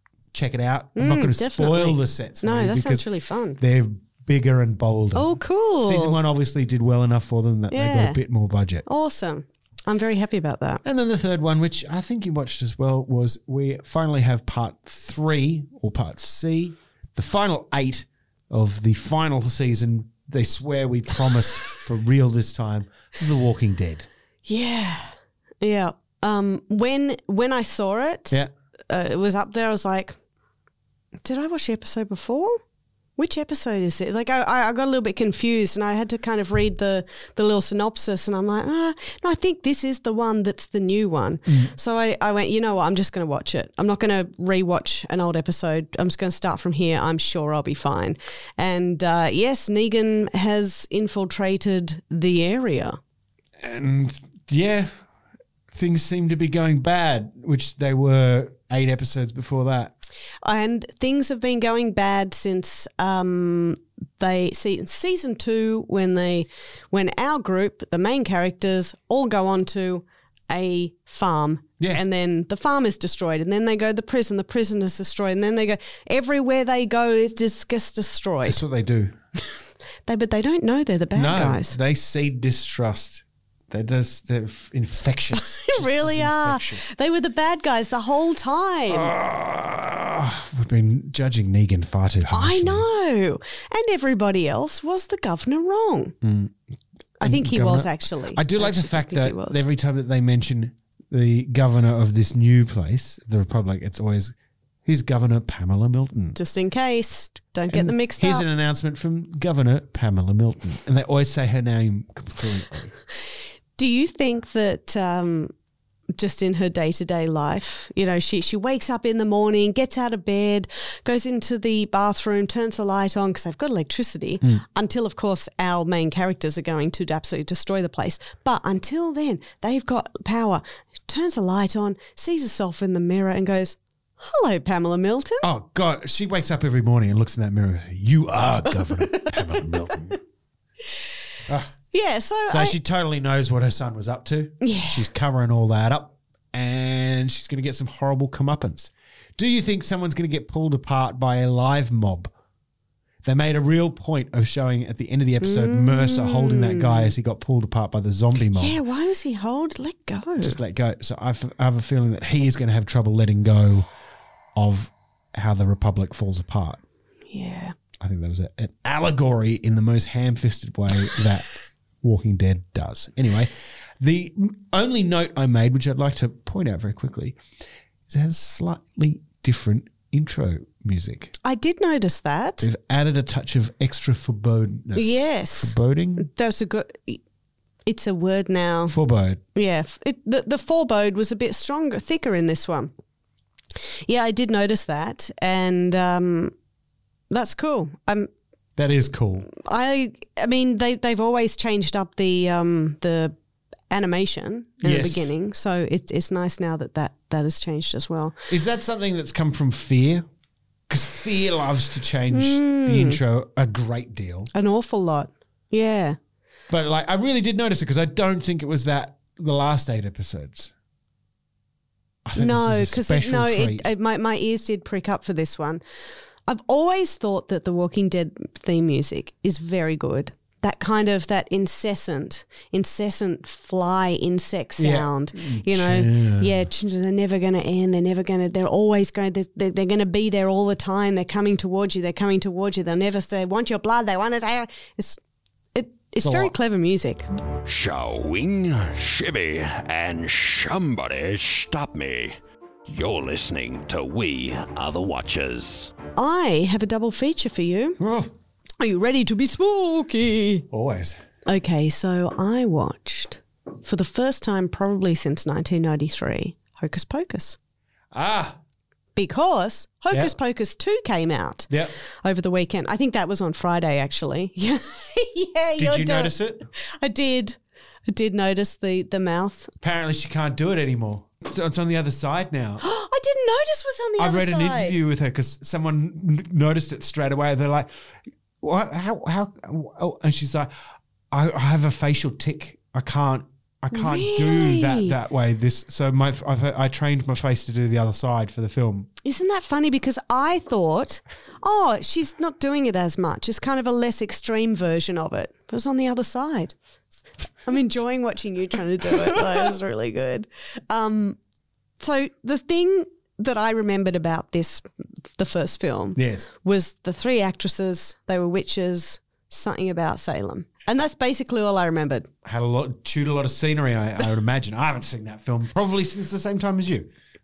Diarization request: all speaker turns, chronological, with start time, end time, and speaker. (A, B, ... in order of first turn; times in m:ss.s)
0:00.3-0:03.1 A
0:01.0-0:03.6 B
0:03.6-0:08.8 A
0:05.1-0:06.2 B
0:07.7-0:08.2 B
0:08.8-0:10.8 B
0:10.8-0:24.1 A
0:24.4-0:30.1 B
0:31.2-0:32.6 B
0:33.2-0:53.0 B
0:53.6-0:55.0 A
0:55.7-0:59.9 A
1:00.4-1:18.6 B
1:18.4-1:19.1 A
1:20.0-1:21.8 B
1:21.1-1:26.8 A
1:25.4-1:29.1 B
1:28.9-1:32.8 A
1:32.3-1:36.2 B
1:36.2-1:36.6 A
1:37.2-1:39.6 B
1:37.2-1:44.3 A
1:44.8-1:46.4 A
1:46.3-1:48.4 B
1:47.7-1:53.0 A
1:53.8-1:55.5 B
1:56.2-2:15.4 B
2:15.4-2:20.2 A
2:21.5-2:21.7 A
2:21.9-2:22.8 B
2:22.5-2:32.3 A
2:24.6-2:25.0 B
2:33.2-2:38.8 A
2:35.4-2:37.1 B
2:38.5-2:40.6 B
2:40.4-2:43.9 A
2:44.5-2:46.8 A
2:47.3-2:47.8 B
2:48.0-2:57.4 A
2:58.1-3:01.3 A
3:01.4-3:02.7 B
3:02.6-3:06.3 A
3:04.9-3:07.2 B
3:07.8-3:09.0 B
3:08.9-3:09.4 A
3:09.5-3:12.9 B
3:14.0-3:16.5 B
3:17.3-3:18.3 B
3:18.8-3:19.5 A
3:19.5-3:23.3 B
3:23.9-3:28.4 B
3:24.8-3:25.3 A
3:28.5-3:30.2 A
3:30.9-3:34.5 A
3:32.3-3:33.2 B
3:34.5-3:36.2 B
3:36.7-3:40.7 A
3:42.2-3:43.9 A
3:42.4-3:45.8 B
3:46.5-4:05.2 B
3:54.8-3:56.6 A
4:05.7-4:07.2 B
4:06.2-4:06.5 A
4:07.6-4:12.4 C
4:12.9-4:15.9 C
4:16.2-4:18.0 B
4:18.0-4:18.3 A
4:18.8-4:20.7 B
4:20.7-4:21.2 A
4:21.4-4:27.6 B
4:28.1-4:28.6 A
4:29.1-4:39.7 B
4:31.7-4:31.9 A
4:35.8-4:36.6 A
4:39.8-4:42.8 A
4:42.8-4:45.0 B
4:44.2-4:47.9 A
4:48.6-4:50.7 A
4:51.3-4:59.1 A
4:53.9-4:55.1 B
4:59.2-5:06.7 B
5:07.6-5:11.4 B
5:12.0-5:22.3 B
5:16.2-5:16.5 A
5:22.4-5:27.1 A